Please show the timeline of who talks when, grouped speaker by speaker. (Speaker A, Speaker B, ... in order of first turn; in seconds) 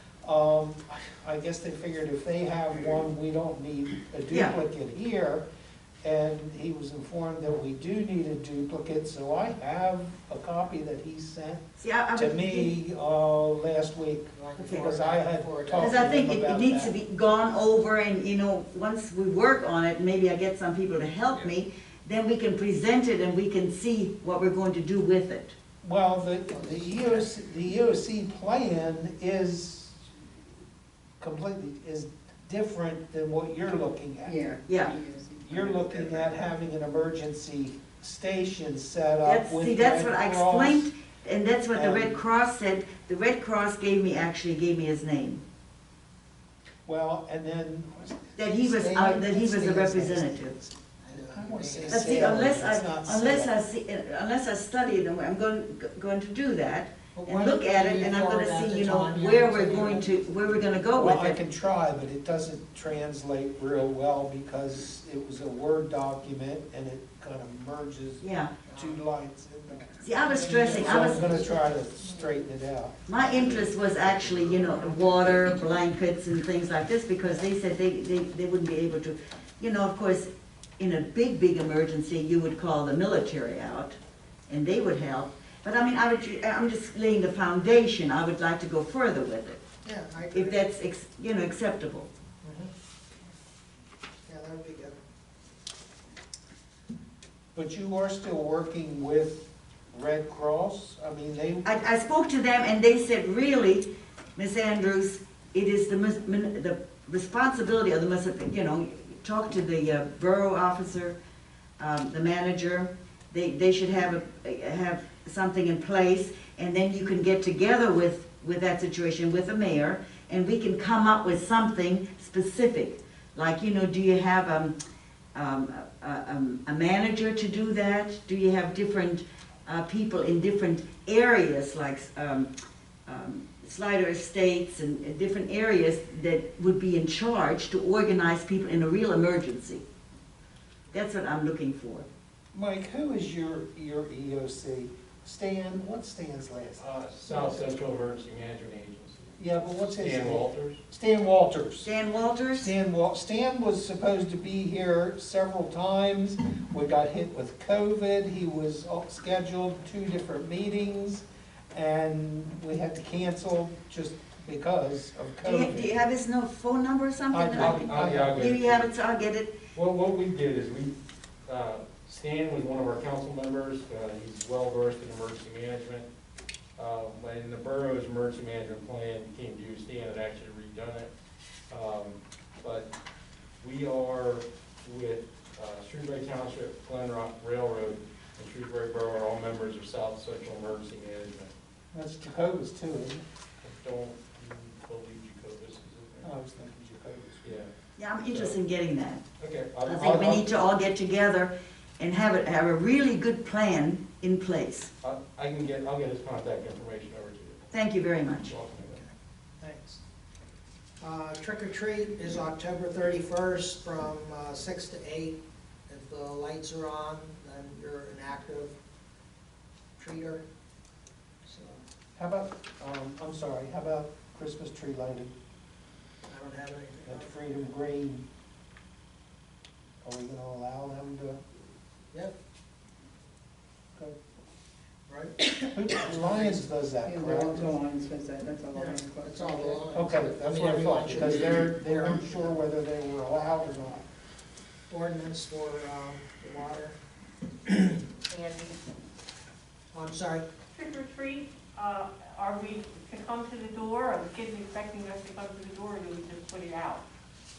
Speaker A: 0.2-5.4, 6.0-16.9, 25.8-30.1, 31.2-40.9, 41.7-42.2, 46.9-53.5, 61.0-73.0, 97.5-101.8, 142.5-146.8, 149.4-151.9, 152.5-165.9, 167.3-168.4, 191.9-193.2, 196.2-197.4, 222.2-225.3, 227.1-228.2, 230.0-231.4, 235.6-237.8, 239.9-244.1
Speaker B: 4.3-4.6, 11.8-12.7, 14.6-14.9, 15.8-25.5, 34.7-34.9, 39.2-45.4, 48.4-50.5, 51.9-61.4, 68.2-68.5, 70.0-71.3, 73.1-84.0, 84.5-89.6, 90.3-92.1, 101.6-111.2, 111.8-124.8, 125.3-132.5, 133.1-139.8, 140.9-142.1, 151.8-152.7, 165.4-169.6, 198.0-199.2, 199.8-204.9, 207.7-208.5
Speaker C: 14.3-16.1, 26.5-27.3, 51.0-52.6, 57.1-60.3, 68.7-69.0, 89.8-90.6, 92.4-92.7, 94.2-95.0, 209.6-210.0, 211.0-218.7, 220.0-220.4, 221.4-221.8, 226.3-227.3, 235.1-235.5, 238.7-242.6, 244.9-246.9, 247.7-248.0, 249.9-250.4
Speaker D: 34.2-36.3, 70.3-71.6, 237.0-240.0
Speaker E: 73.4-74.8, 146.8-150.8, 167.6-168.9, 169.7-176.1, 176.8-181.1, 181.7-182.9, 183.6-191.5, 193.6-196.3, 197.4-197.7, 198.3-198.6, 199.4-200.5, 205.0-207.7, 208.4-209.0
Speaker F: 250.7-257.0